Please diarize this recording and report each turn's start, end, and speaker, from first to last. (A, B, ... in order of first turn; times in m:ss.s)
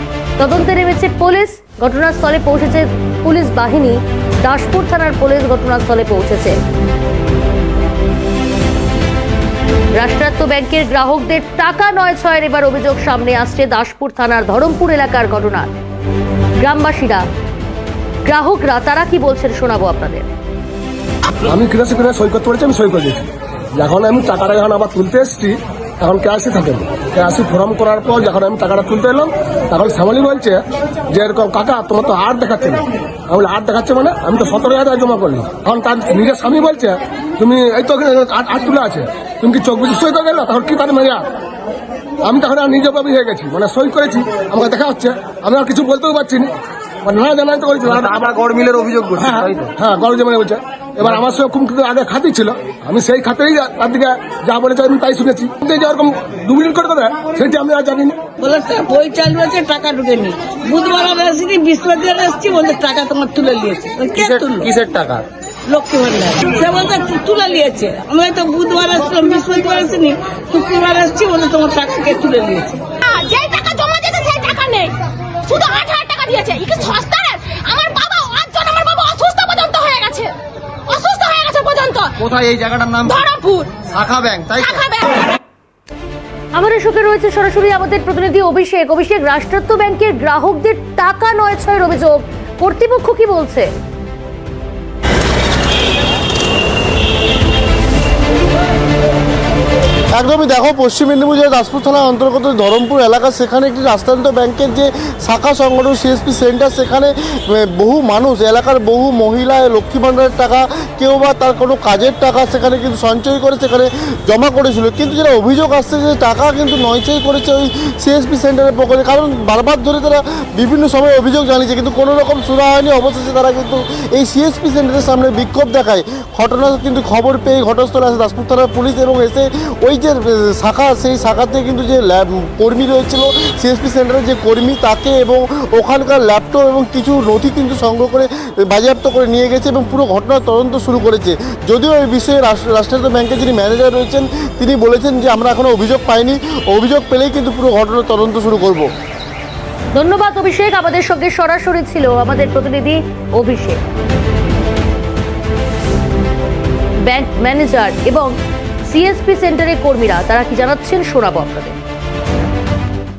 0:00.4-0:06.6 A
0:09.9-0:15.7 A
0:16.6-0:17.2 A
0:18.2-0:20.3 A
0:21.4-0:41.2 B
0:42.2-0:46.5 B
0:47.0-0:48.3 B
0:47.8-0:49.7 C
0:49.2-0:58.2 B
0:58.4-1:04.7 D
1:04.1-1:05.2 C
1:05.7-1:12.8 D
1:13.0-1:20.3 E
1:20.9-1:22.1 E
1:22.2-1:23.3 C
1:23.1-1:23.7 E
1:23.8-1:24.8 C
1:24.6-1:25.0 E
1:26.5-1:33.7 A
1:40.2-2:28.9 F
2:29.9-2:33.8 A
2:37.1-2:38.3 A
2:38.9-2:41.8 A